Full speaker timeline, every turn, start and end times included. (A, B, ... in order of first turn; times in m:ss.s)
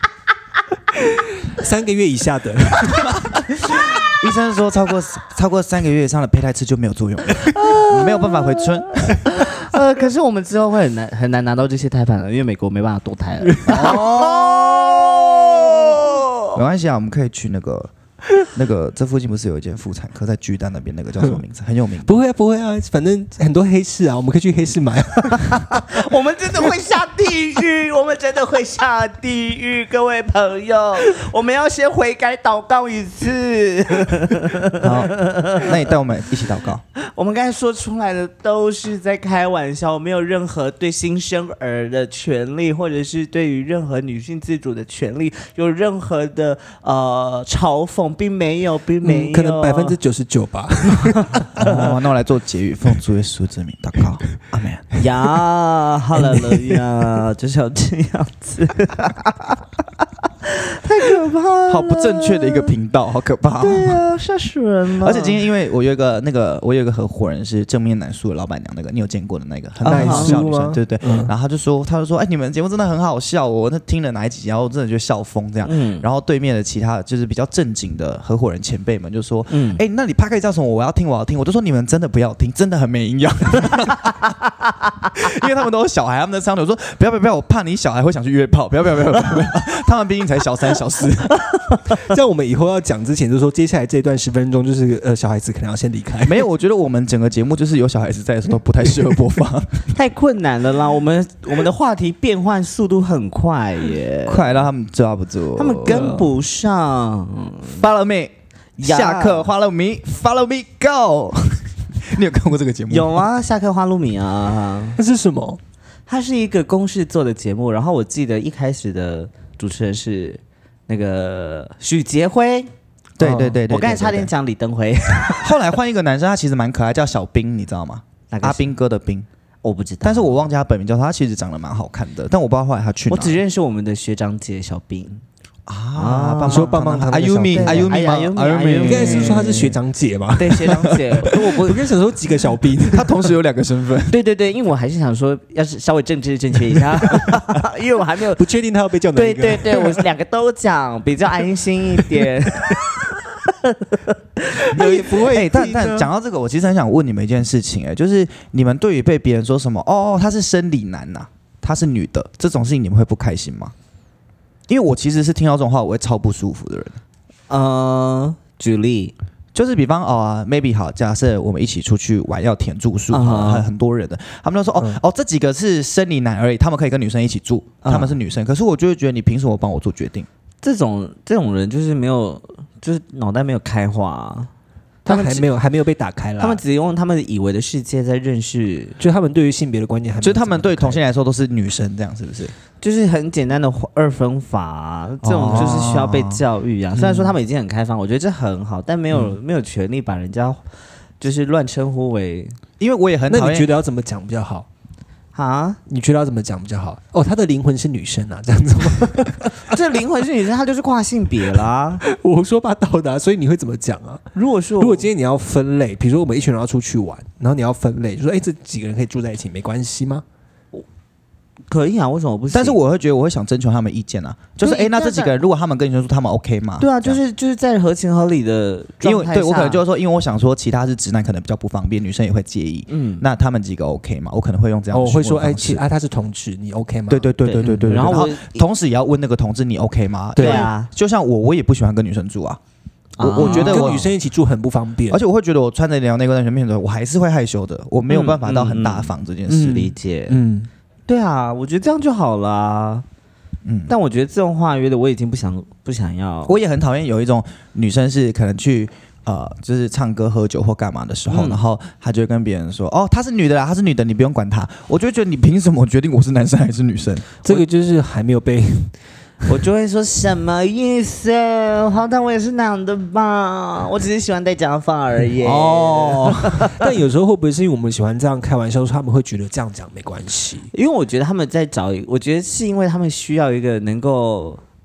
0:01.4-0:03.1 A
0:03.6-0:09.2 B
0:07.6-0:16.4 C
0:13.4-0:14.0 A
0:13.7-0:15.0 B
0:16.5-0:22.1 B
0:22.0-0:26.0 A
0:25.7-0:35.8 C
0:34.8-0:36.8 B
0:37.0-0:50.0 C
0:49.0-0:51.9 A
0:51.1-0:52.0 C
0:51.6-0:54.9 B
0:55.0-0:59.6 C
0:56.4-0:56.8 A
1:00.4-1:02.7 C
1:01.7-1:04.0 B
1:03.6-1:05.4 C
1:05.0-1:24.2 B
1:09.8-1:10.4 C
1:09.8-1:11.3 A
1:15.6-1:16.0 C
1:19.5-1:19.8 C
1:25.1-1:31.3 B
1:31.9-1:36.4 A
1:36.2-1:39.9 B
1:39.9-1:44.7 C
1:44.2-1:46.1 B
1:45.6-1:47.8 C
1:45.8-1:46.3 A
1:47.7-1:53.2 B
1:48.8-1:49.5 C
1:52.9-1:55.0 C
1:55.0-1:55.6 A
1:56.1-2:02.7 C
2:03.2-2:04.3 B
2:03.2-2:03.6 A
2:03.7-2:05.4 C
2:05.4-2:09.3 B
2:08.3-2:08.7 C
2:09.6-2:10.3 C
2:10.0-2:13.4 B
2:13.1-2:15.2 C
2:15.7-2:19.5 B
2:16.0-2:19.8 C
2:16.5-2:17.9 A
2:18.8-2:20.8 A
2:20.4-2:21.8 C
2:21.6-2:23.2 A
2:22.9-2:24.1 B
2:24.1-2:28.4 C
2:28.3-2:30.0 A
2:29.1-2:35.3 C
2:32.2-2:32.8 A
2:34.6-2:36.1 A
2:35.3-2:43.7 B
2:44.7-2:47.0 B
2:47.5-2:49.1 C
2:49.5-3:00.3 B
2:53.1-2:53.7 C
2:57.8-2:58.2 C
3:00.6-3:04.5 C
3:05.0-3:05.4 C
3:05.0-3:06.6 A
3:06.4-3:09.0 C
3:09.0-3:11.0 A
3:10.2-3:12.5 B
3:12.8-3:20.6 C
3:15.2-3:16.4 B
3:15.5-3:15.9 A
3:16.9-3:17.4 A
3:21.2-3:22.6 C
3:22.8-3:23.7 B
3:23.3-3:24.6 A
3:25.3-3:25.8 C
3:25.9-3:29.7 A
3:29.6-3:32.0 C
3:32.0-3:34.2 A
3:34.3-3:35.1 C
3:34.8-3:40.2 A
3:41.7-3:42.8 C
3:42.5-3:47.2 B
3:44.6-3:45.4 C
3:46.8-3:49.8 C
3:49.0-3:55.8 B
3:52.9-3:53.2 C
3:54.9-3:58.2 A
3:57.1-4:02.6 B
3:57.4-3:58.6 C
4:00.4-4:00.7 A
4:00.4-4:00.9 C
4:03.2-4:04.0 C
4:03.2-4:04.1 B
4:03.4-4:05.2 A
4:05.1-4:09.9 B
4:08.1-4:10.4 C
4:09.5-4:10.7 A
4:11.1-4:13.0 C
4:13.6-4:13.9 B
4:13.9-4:16.6 C
4:16.4-4:27.3 B
4:21.3-4:21.6 C
4:27.4-4:28.9 A
4:29.4-4:36.9 C
4:35.4-4:36.7 B
4:36.7-4:40.7 A
4:40.7-4:44.6 C